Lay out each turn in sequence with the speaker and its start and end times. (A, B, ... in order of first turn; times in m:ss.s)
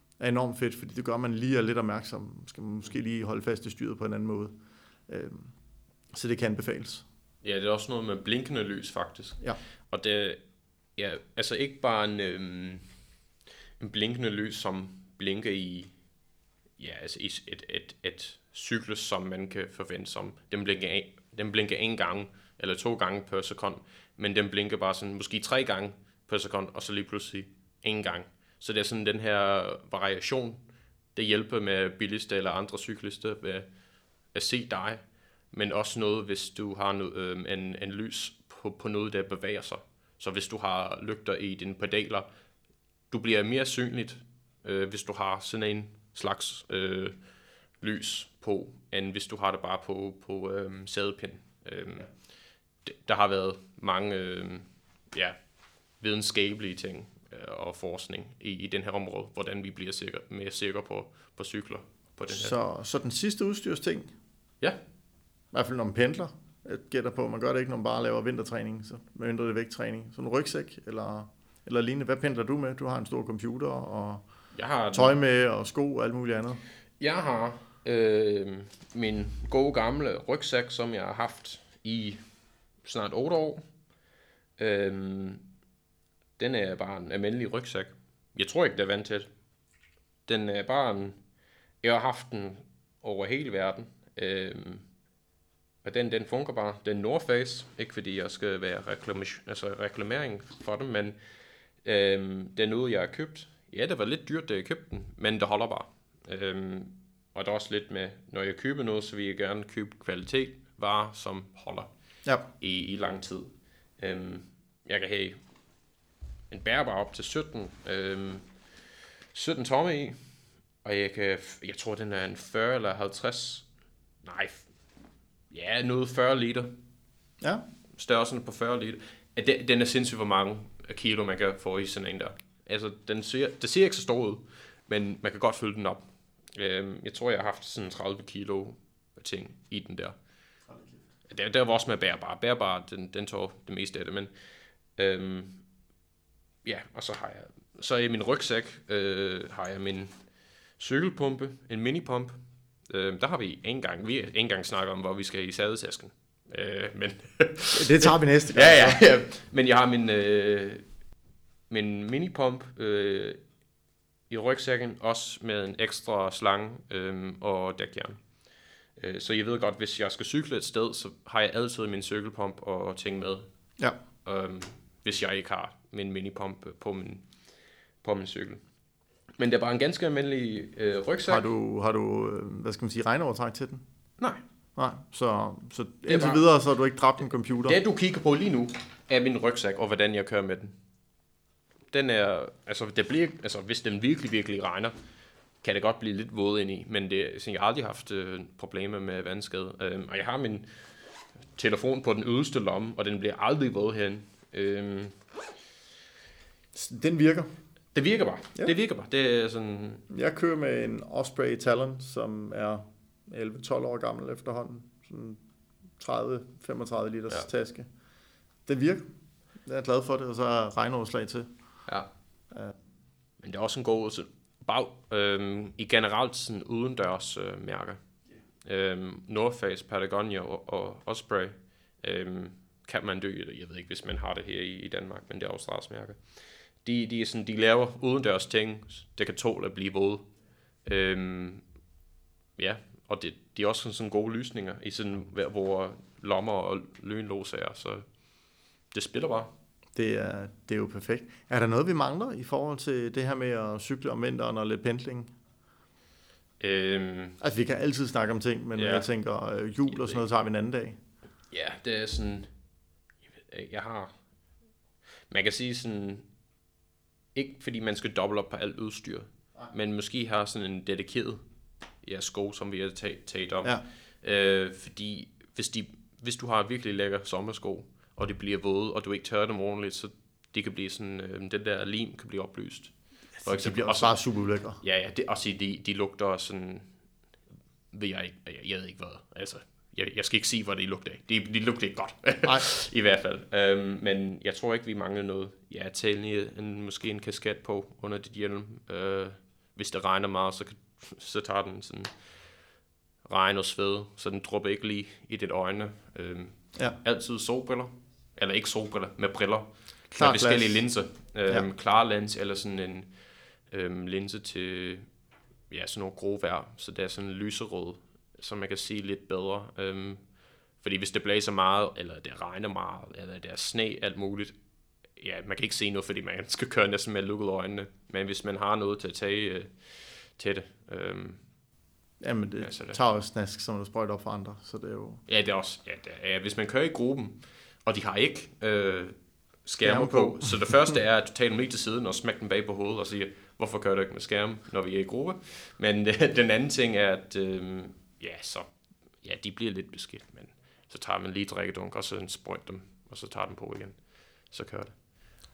0:00.2-0:04.5 A
0:05.1-0:05.5 A
0:06.1-0:07.0 A
0:07.4-0:10.4 B
0:11.0-0:12.9 B
0:13.8-0:15.9 B
0:16.8-0:30.6 B
0:31.1-0:33.7 B
0:34.3-0:42.3 B
0:43.1-0:47.2 B
0:47.8-0:52.1 B
0:52.8-0:55.4 B
0:56.0-1:02.5 B
1:02.3-1:04.1 A
1:05.5-1:14.2 A
1:14.5-1:15.2 B
1:14.9-1:16.6 A
1:17.0-1:22.2 B
1:22.8-1:23.6 B
1:24.6-1:25.4 B
1:26.4-1:29.3 B
1:30.3-1:31.2 B
1:31.8-1:34.8 B
1:35.8-1:41.2 B
1:41.8-1:51.9 B
1:52.6-1:55.4 B
1:56.5-1:58.4 B
1:59.3-2:00.2 B
2:00.8-2:03.7 B
2:04.2-2:04.7 B
2:05.5-2:06.7 B
2:08.0-2:20.2 B
2:21.3-2:24.3 B
2:25.0-2:25.6 B
2:26.6-2:30.1 B
2:30.8-2:32.4 B
2:32.9-2:40.8 B
2:37.7-2:39.0 A
2:41.7-2:43.4 B
2:44.3-2:48.2 B
2:49.0-2:53.4 B
2:54.2-2:57.2 B
2:58.0-2:58.6 B
2:59.4-3:01.4 B
3:01.3-3:03.8 A
3:04.8-3:07.8 A
3:06.1-3:06.4 B
3:07.6-3:10.7 B
3:11.9-3:14.9 B
3:15.6-3:20.7 B
3:21.5-3:25.2 B
3:26.7-3:27.5 A
3:27.9-3:30.0 B
3:30.1-3:35.4 A
3:36.0-3:37.9 A
3:38.6-3:39.1 A
3:39.6-3:41.5 A
3:42.5-3:42.8 A
3:43.4-3:48.0 B
3:48.6-3:56.2 B
3:56.8-4:00.3 B
4:00.8-4:01.6 B
4:02.6-4:08.0 B
4:08.9-4:09.5 B
4:09.9-4:15.3 A
4:16.6-4:17.4 B
4:17.4-4:21.0 A
4:18.8-4:19.1 B
4:21.5-4:22.5 B
4:23.5-4:24.1 B
4:25.3-4:26.2 B
4:27.3-4:31.4 B
4:32.0-4:44.2 B
4:43.4-4:44.8 A
4:44.8-4:46.9 B
4:47.9-5:02.1 B
5:03.2-5:13.1 B
5:10.1-5:10.8 A
5:13.7-5:15.0 B
5:15.7-5:20.2 B
5:20.8-5:24.6 B
5:25.2-5:31.4 B
5:32.2-5:35.2 A
5:32.6-5:33.0 B
5:35.3-5:48.7 B
5:39.8-5:40.7 A
5:49.2-5:55.0 B